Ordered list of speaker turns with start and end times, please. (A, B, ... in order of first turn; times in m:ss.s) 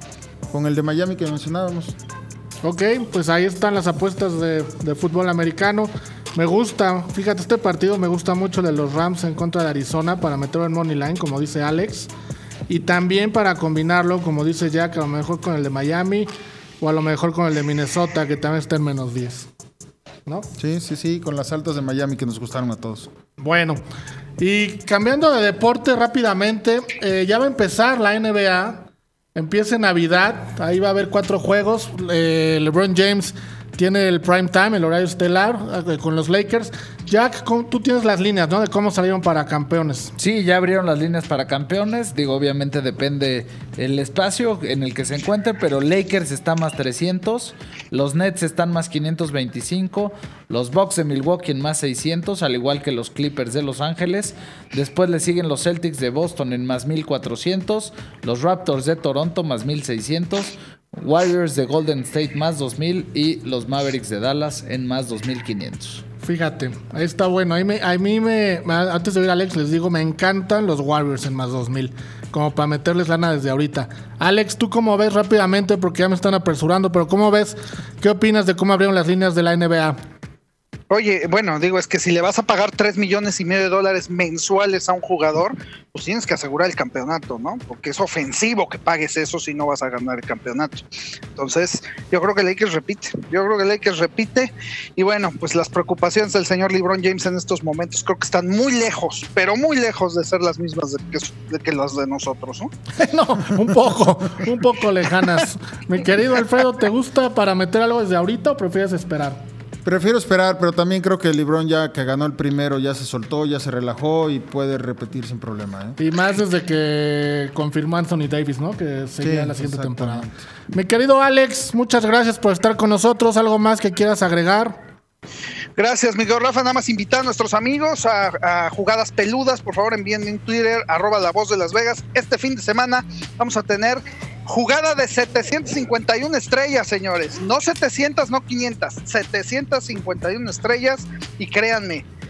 0:00.5-0:02.0 A
0:02.6-0:12.1 B
0:12.7-0:19.5 B
0:20.6-0:23.1 A
0:23.4-0:23.8 B
0:24.4-0:40.1 B
0:40.2-1:06.0 C
1:06.2-1:20.0 B
1:20.9-1:42.7 D
1:43.0-1:49.4 B
1:49.8-1:56.0 A
1:56.0-2:04.8 B
1:59.2-2:00.4 A
2:05.8-2:22.0 D